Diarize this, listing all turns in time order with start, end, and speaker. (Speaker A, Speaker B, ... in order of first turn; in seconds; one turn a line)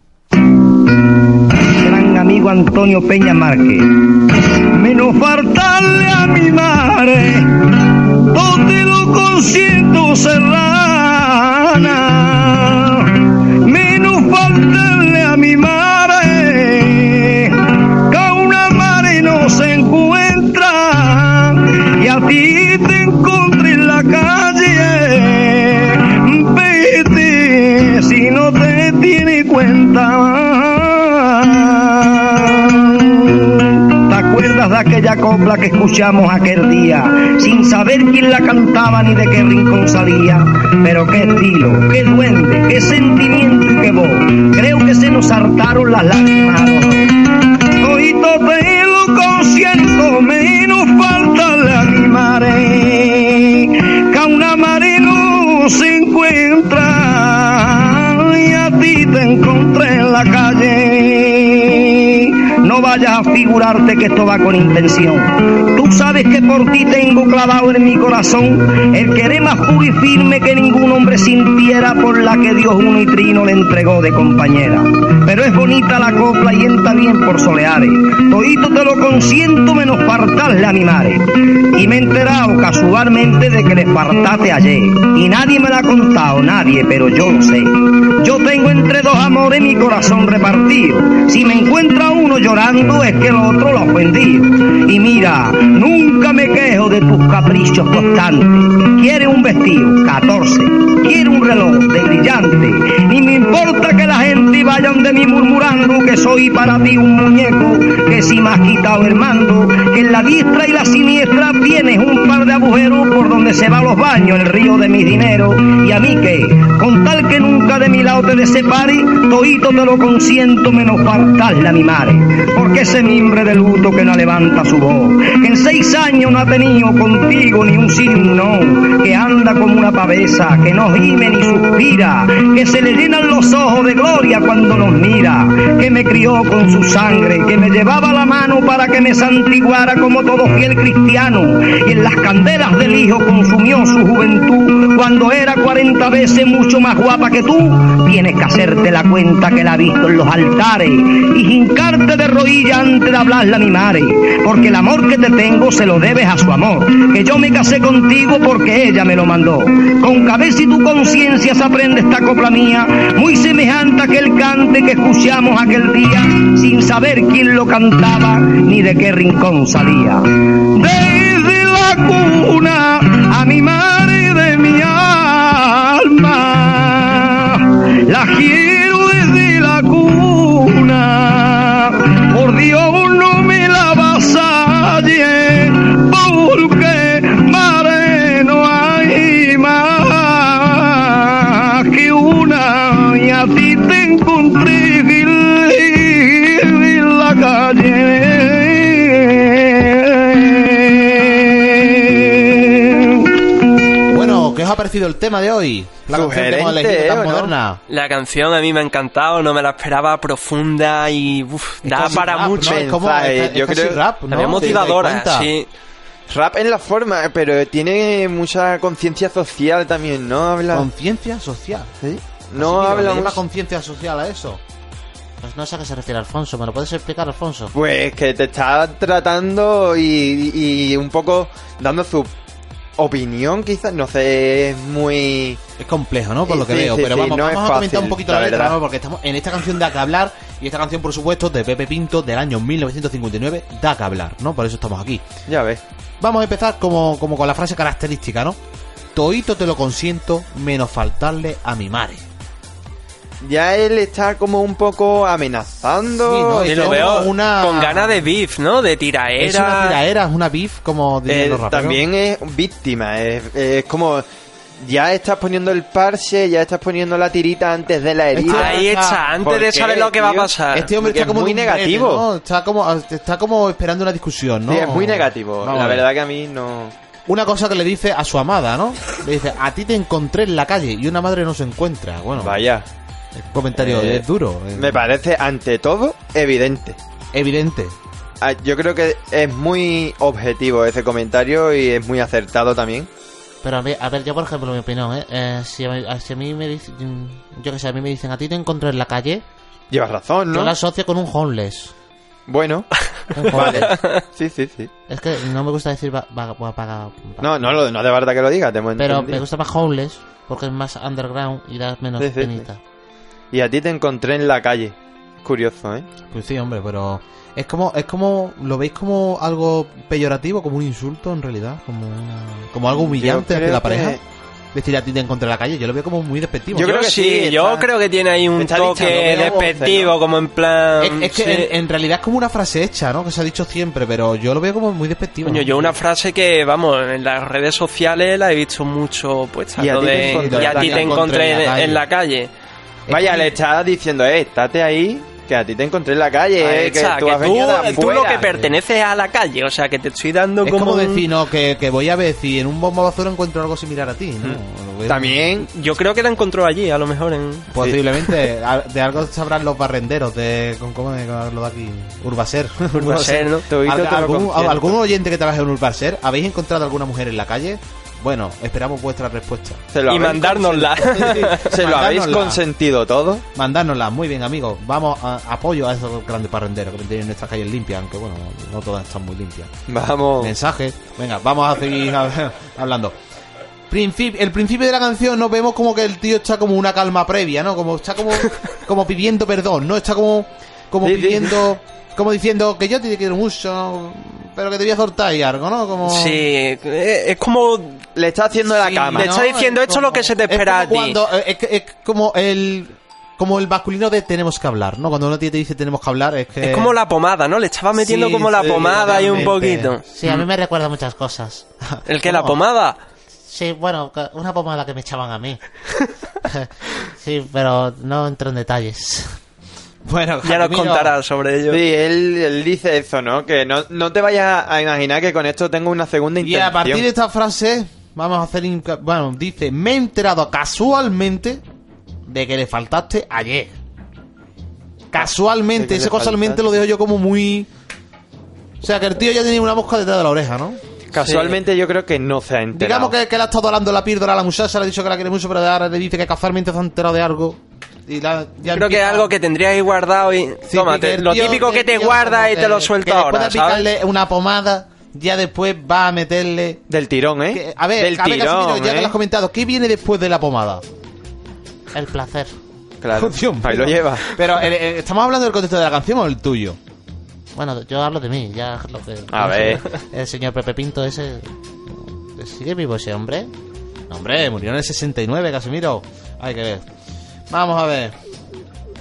Speaker A: 1.6-47.1
Speaker A: 47.8-203.3
Speaker B: 204.1-207.8
Speaker C: 206.1-207.5
Speaker D: 207.9-212.8
Speaker B: 211.8-215.5
Speaker C: 212.1-214.9
Speaker D: 214.3-215.7
Speaker C: 216.3-220.9
Speaker B: 220.7-221.9
Speaker C: 222.0-223.4
Speaker B: 222.5-224.6
Speaker E: 225.4-227.7
Speaker C: 227.7-232.3
Speaker C: 233.0-235.6
Speaker B: 235.8-245.2
Speaker C: 236.4-238.8
Speaker C: 245.5-245.8
Speaker B: 246.2-248.6
Speaker B: 249.2-252.2
Speaker C: 253.4-257.3
Speaker B: 256.1-258.2
Speaker D: 256.7-260.0
Speaker B: 259.4-262.0
Speaker C: 261.3-264.2
Speaker C: 264.8-268.9
Speaker B: 268.3-269.2
Speaker D: 268.5-270.9
Speaker C: 269.4-272.2
Speaker B: 270.7-276.1
Speaker C: 274.7-276.9
Speaker B: 277.3-282.6
Speaker C: 282.4-282.9
Speaker B: 283.4-285.1
Speaker C: 283.7-287.0
Speaker B: 287.3-287.9
Speaker C: 288.4-293.1
Speaker E: 293.6-299.4
Speaker C: 299.9-300.8
Speaker E: 300.5-301.9
Speaker C: 302.5-302.9
Speaker C: 303.5-304.9
Speaker B: 303.5-303.9
Speaker D: 303.6-304.2
Speaker E: 305.1-307.4
Speaker C: 307.4-309.4
Speaker E: 309.0-312.8
Speaker C: 312.2-312.7
Speaker C: 313.5-316.1
Speaker B: 316.3-324.2
Speaker C: 322.9-324.2
Speaker B: 324.7-326.9
Speaker C: 326.7-327.9
Speaker D: 326.8-331.7
Speaker C: 328.6-330.2
Speaker B: 328.9-329.7
Speaker B: 331.0-335.9
Speaker D: 335.4-342.5
Speaker C: 339.8-341.2
Speaker B: 340.1-342.0
Speaker B: 343.1-343.5
Speaker C: 343.1-348.6
Speaker D: 346.6-351.3
Speaker B: 350.6-355.4
Speaker C: 354.4-355.7
Speaker D: 355.7-357.7
Speaker B: 357.7-369.8
Speaker D: 362.9-363.7
Speaker C: 363.7-365.0
Speaker C: 369.9-373.4
Speaker D: 370.1-371.7
Speaker B: 371.0-372.6
Speaker B: 373.5-379.7
Speaker C: 379.9-380.5
Speaker B: 380.4-383.1
Speaker B: 383.9-396.4
Speaker C: 391.0-391.6
Speaker D: 396.0-398.0
Speaker C: 398.1-399.3
Speaker B: 398.8-406.9
Speaker D: 399.0-401.2
Speaker D: 406.6-410.5
Speaker B: 407.9-410.4
Speaker C: 408.6-409.5
Speaker E: 410.2-411.6
Speaker B: 411.9-412.6
Speaker D: 412.0-413.0
Speaker E: 413.5-415.6
Speaker E: 417.2-419.3
Speaker B: 420.1-421.1
Speaker D: 420.4-421.8
Speaker C: 421.7-427.1
Speaker B: 426.4-431.6
Speaker B: 432.3-433.7
Speaker B: 435.1-437.7
Speaker C: 435.1-436.6
Speaker B: 438.8-440.8
Speaker C: 441.1-443.1
Speaker D: 441.1-441.6
Speaker B: 442.7-449.3
Speaker D: 448.6-453.9
Speaker B: 450.7-456.8
Speaker C: 456.9-459.1
Speaker B: 457.5-460.8
Speaker E: 461.9-462.5
Speaker C: 463.0-464.3
Speaker B: 463.1-466.8
Speaker E: 467.5-471.4
Speaker C: 469.3-469.8
Speaker B: 469.4-469.8
Speaker E: 472.4-473.5
Speaker B: 474.1-476.8
Speaker B: 477.5-478.1